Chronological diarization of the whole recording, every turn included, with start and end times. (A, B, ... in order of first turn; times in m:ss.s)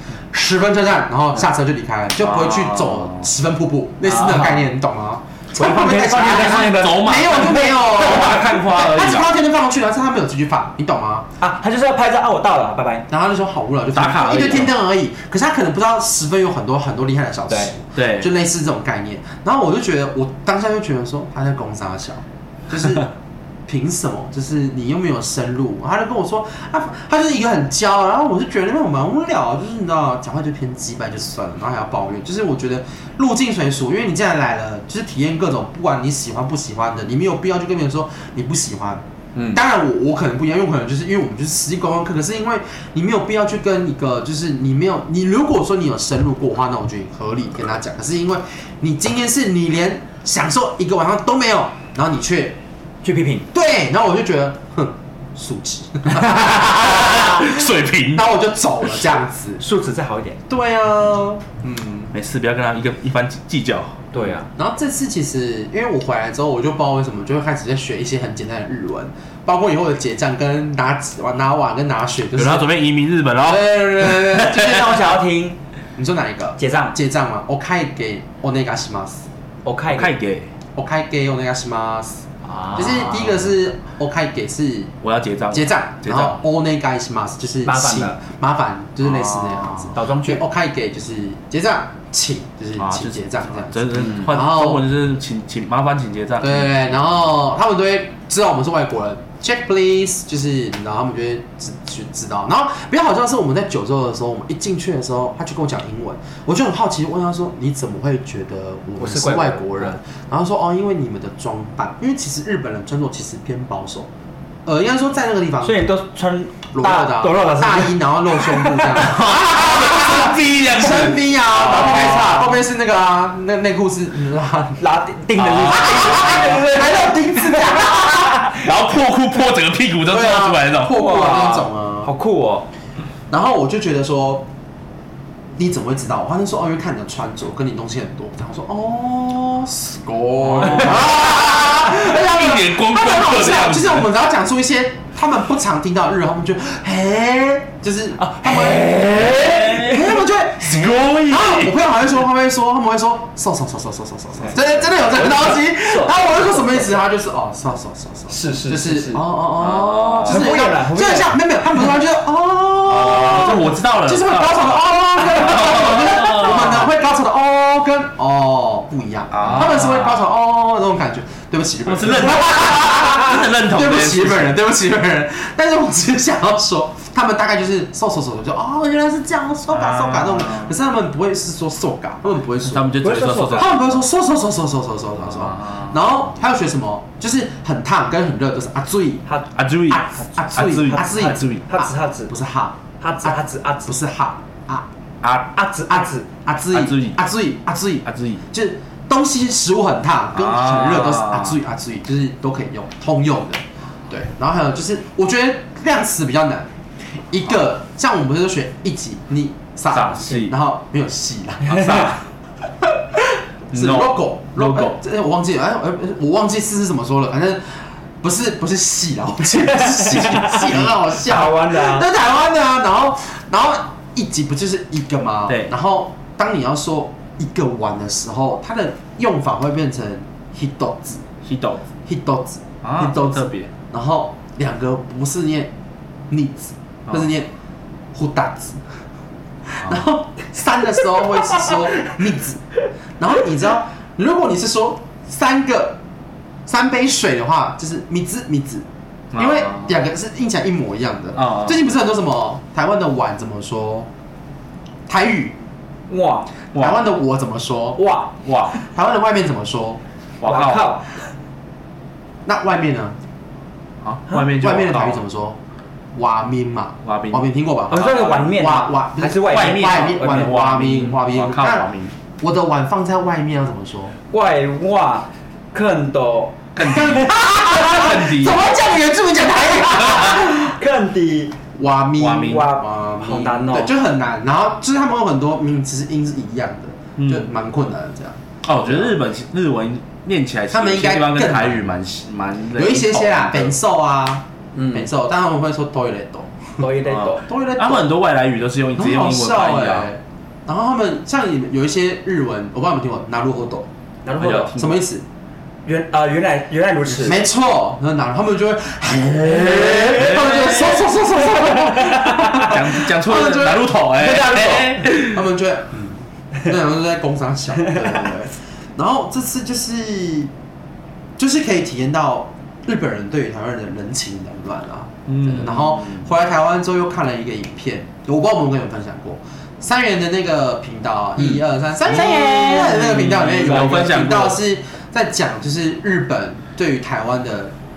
0:00.3-0:11.3 A
0:02.2-0:03.3 B
0:04.0-0:04.7 C
0:05.6-0:08.6 C
0:06.1-0:09.3 B
0:11.4-0:13.1 C
0:13.1-0:23.1 A
0:13.9-0:14.7 B
0:17.9-0:18.3 B
0:23.7-0:52.6 A
0:53.0-0:53.4 C
0:53.5-0:59.6 A
0:56.2-0:58.3 B
0:59.6-1:00.4 C
1:00.5-1:02.1 A
1:02.1-1:04.0 B
1:04.1-1:04.5 C
1:04.2-1:12.7 A
1:12.4-1:14.8 B
1:13.4-1:15.0 A
1:14.5-1:15.6 C
1:16.0-1:19.3 A
1:16.6-1:17.0 C
1:19.6-1:20.1 C
1:19.9-1:20.5 B
1:20.8-1:24.9 A
1:22.4-1:23.4 C
1:25.0-1:26.4 B
1:25.5-1:34.8 A
1:27.6-1:28.2 C
1:29.0-1:29.9 B
1:29.9-1:30.4 C
1:32.8-1:36.8 B
1:36.4-1:54.1 A
1:49.0-1:50.0 C
1:54.6-1:55.9 A
1:55.6-1:59.2 C
1:56.7-2:04.8 A
1:59.0-2:02.5 B
2:04.8-2:08.7 C
2:05.4-2:06.6 B
2:05.6-2:08.5 A
2:08.5-2:11.0 B
2:10.1-2:12.1 A
2:10.9-2:12.7 C
2:13.3-2:14.5 A
2:15.6-3:02.9 A
2:20.4-2:24.1 B
2:20.6-2:20.9 C
2:28.2-2:29.9 C
2:28.5-2:31.8 B
2:35.2-2:36.8 C
2:38.3-2:39.2 C
2:39.6-2:40.6 B
2:40.2-2:41.4 C
2:42.9-2:46.9 B
2:49.3-2:50.2 B
2:51.9-2:54.6 B
2:59.7-3:00.7 B
3:02.6-3:04.0 B
3:03.0-3:03.7 C
3:03.5-3:09.2 A
3:05.2-3:06.0 B
3:09.6-3:11.6 B
3:09.9-3:14.9 A
3:10.8-3:12.4 C
3:13.0-3:14.0 C
3:15.2-3:15.5 B
3:15.5-3:16.3 C
3:16.0-3:26.7 A
3:16.7-3:17.2 B
3:18.0-3:18.4 B
3:20.4-3:21.6 B
3:27.3-3:32.1 A
3:29.9-3:30.5 B
3:31.7-3:32.2 B
3:31.7-3:32.1 C
3:33.7-3:51.2 A
3:33.7-3:35.0 B
3:39.8-3:42.1 C
3:51.4-3:51.8 B
3:52.1-3:55.7 A
3:52.8-3:53.7 B
3:56.3-3:57.5 A
3:58.1-3:58.8 A
3:59.7-4:02.6 A
4:03.2-4:06.0 A
4:06.6-4:14.1 A
4:09.3-4:09.9 B
4:11.4-4:11.8 B
4:15.1-4:15.6 A
4:16.1-4:16.5 C
4:16.7-4:17.1 B
4:16.8-4:18.0 A
4:18.0-4:18.8 C
4:18.4-4:18.8 B
4:18.9-4:20.0 A
4:20.4-4:21.0 B
4:20.4-4:21.2 C
4:22.4-4:23.2 A
4:24.0-4:25.2 B
4:24.3-4:25.6 A
4:26.1-4:31.9 A
4:27.0-4:28.4 B
4:27.9-4:30.4 C
4:29.4-4:32.1 B
4:32.4-4:34.1 A
4:34.3-4:37.2 C
4:36.8-4:38.7 B
4:36.8-4:40.7 A
4:39.8-4:41.6 C
4:41.8-4:49.2 A
4:42.2-4:42.7 B
4:42.4-4:43.9 C
4:47.2-4:47.5 B
4:48.6-4:53.7 B
4:50.7-4:51.8 A
4:52.8-4:56.9 A
4:54.8-4:55.1 C
4:56.8-4:57.4 C
4:57.1-5:00.1 B
4:57.4-4:58.1 A
4:59.0-5:03.9 A
5:04.3-5:05.0 C
5:04.4-5:04.7 B
5:04.4-5:05.2 A
5:05.8-5:07.4 C
5:07.2-5:14.0 A
5:09.6-5:10.7 C
5:09.8-5:11.0 B
5:11.3-5:12.8 C
5:12.6-5:15.4 B
5:14.1-5:15.1 C
5:15.2-5:20.5 A
5:21.4-5:37.7 A
5:25.3-5:26.3 B
5:32.1-5:34.6 B